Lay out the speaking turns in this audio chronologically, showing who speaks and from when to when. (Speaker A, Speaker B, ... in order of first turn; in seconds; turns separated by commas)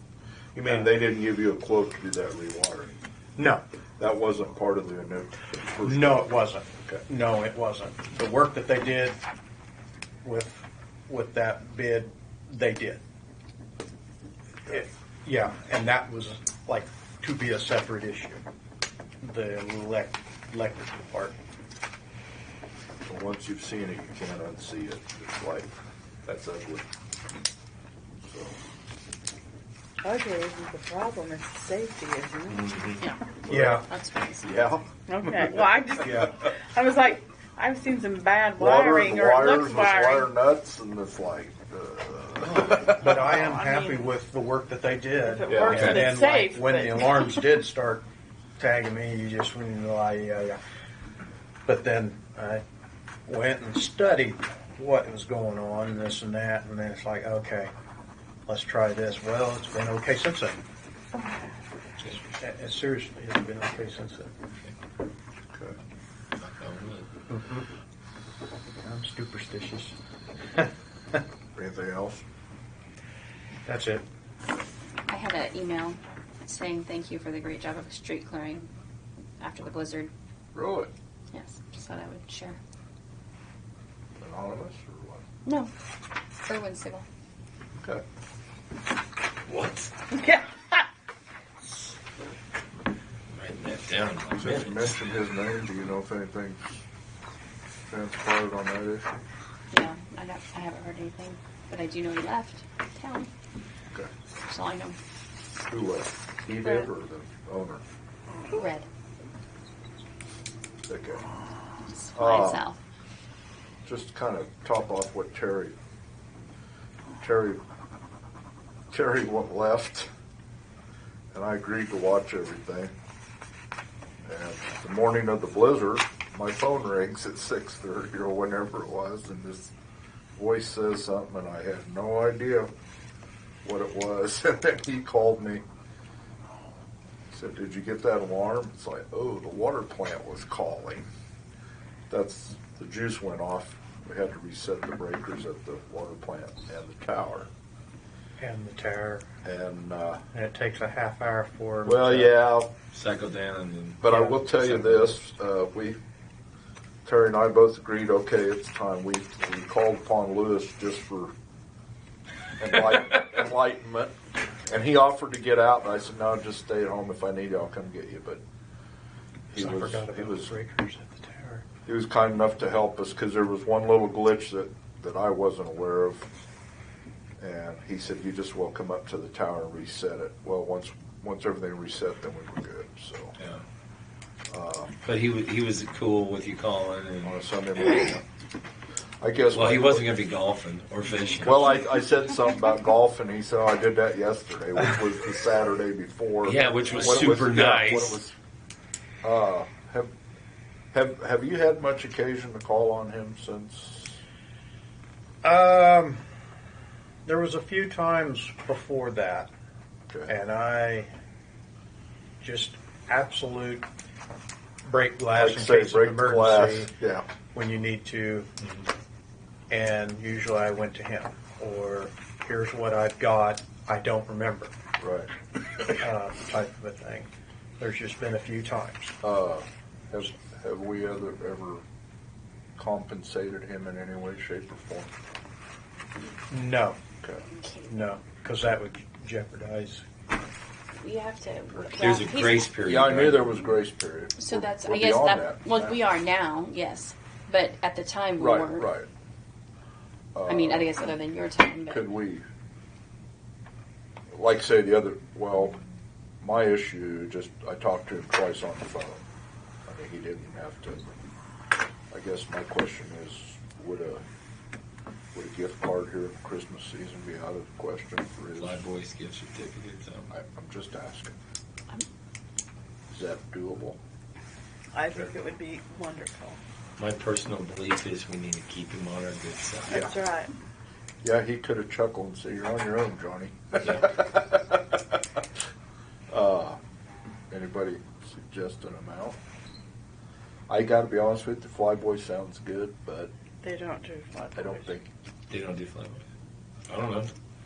Speaker A: 0.5-3.0, Speaker B: 3.4-3.6, Speaker A: 4.0-6.3, Speaker B: 5.8-9.2, Speaker B: 10.2-13.0, Speaker B: 14.7-18.4, Speaker B: 19.2-21.4, Speaker A: 23.1-26.9, Speaker A: 28.2-28.6, Speaker C: 30.0-32.9, Speaker A: 32.7-33.9, Speaker D: 33.0-34.5, Speaker B: 33.5-33.9, Speaker A: 34.4-35.6, Speaker C: 35.1-40.3, Speaker B: 36.0-36.3, Speaker A: 38.6-43.1, Speaker B: 42.5-48.0, Speaker C: 43.0-44.1, Speaker C: 45.2-47.3, Speaker A: 45.5-45.9, Speaker E: 45.7-46.0, Speaker B: 48.6-50.6, Speaker B: 51.6-52.6, Speaker B: 53.2-57.7, Speaker B: 58.5-60.6, Speaker C: 61.1-61.5, Speaker B: 62.1-64.3, Speaker E: 66.4-67.1, Speaker B: 67.3-67.7, Speaker B: 68.8-69.9, Speaker A: 71.5-72.2, Speaker B: 73.7-74.0, Speaker D: 75.1-78.7, Speaker D: 79.4-80.1, Speaker A: 80.5-80.9, Speaker D: 81.3-82.6, Speaker A: 84.2-85.2, Speaker D: 85.4-85.7, Speaker D: 86.5-87.0, Speaker A: 87.8-88.0, Speaker E: 89.5-89.9, Speaker C: 90.1-90.8, Speaker E: 93.3-95.0, Speaker A: 94.4-96.8, Speaker A: 97.9-99.2, Speaker D: 99.7-103.3, Speaker D: 104.4-105.0, Speaker A: 105.7-107.8, Speaker D: 106.6-106.9, Speaker D: 108.5-108.8, Speaker A: 110.9-111.2, Speaker D: 111.9-112.8, Speaker A: 112.2-112.6, Speaker A: 113.8-115.8, Speaker A: 117.2-117.6, Speaker A: 118.9-120.1, Speaker A: 121.3-122.9, Speaker A: 124.2-129.7, Speaker A: 130.3-132.7, Speaker A: 133.6-135.6, Speaker A: 137.3-141.1, Speaker A: 142.1-147.5, Speaker B: 148.4-149.2, Speaker A: 149.4-150.2, Speaker B: 150.3-152.3, Speaker A: 151.8-152.7, Speaker E: 152.9-155.1, Speaker A: 154.0-156.0, Speaker A: 157.0-161.3, Speaker A: 162.6-164.2, Speaker A: 164.7-168.4, Speaker A: 169.5-170.5, Speaker B: 169.6-171.6, Speaker A: 171.8-176.3, Speaker A: 177.4-183.3, Speaker E: 183.4-183.6, Speaker A: 184.5-184.9, Speaker E: 185.1-188.1, Speaker A: 187.2-188.2, Speaker A: 189.2-190.1, Speaker E: 189.5-191.7, Speaker A: 191.4-198.3, Speaker E: 196.4-198.2, Speaker A: 199.2-200.1, Speaker A: 200.9-204.2, Speaker B: 205.4-206.2, Speaker B: 207.2-209.5, Speaker B: 210.3-211.1, Speaker B: 212.4-213.8, Speaker B: 214.8-216.9, Speaker A: 215.3-217.2, Speaker B: 217.5-218.5, Speaker B: 219.7-224.7, Speaker A: 225.0-225.3, Speaker B: 226.0-229.2, Speaker A: 229.2-231.8, Speaker A: 232.8-235.1, Speaker B: 236.5-237.0, Speaker B: 237.8-240.0, Speaker D: 241.0-242.7, Speaker E: 241.9-243.5, Speaker A: 242.8-246.0, Speaker D: 244.4-248.9, Speaker A: 248.4-249.1, Speaker A: 250.3-250.9, Speaker D: 250.5-252.1, Speaker A: 251.9-252.4, Speaker A: 254.3-255.8, Speaker A: 256.4-259.2, Speaker A: 259.9-261.1, Speaker A: 262.1-264.2, Speaker A: 265.3-268.8, Speaker E: 268.6-270.3, Speaker A: 270.3-271.4, Speaker A: 273.1-274.0, Speaker C: 274.9-276.6, Speaker E: 277.0-280.1, Speaker A: 279.9-280.1, Speaker C: 279.9-280.5, Speaker A: 281.2-285.2, Speaker E: 283.8-284.1, Speaker A: 286.3-286.8, Speaker A: 287.5-289.4, Speaker A: 290.7-293.3, Speaker C: 293.6-294.9, Speaker A: 294.5-295.1, Speaker E: 295.5-296.2, Speaker E: 296.9-297.3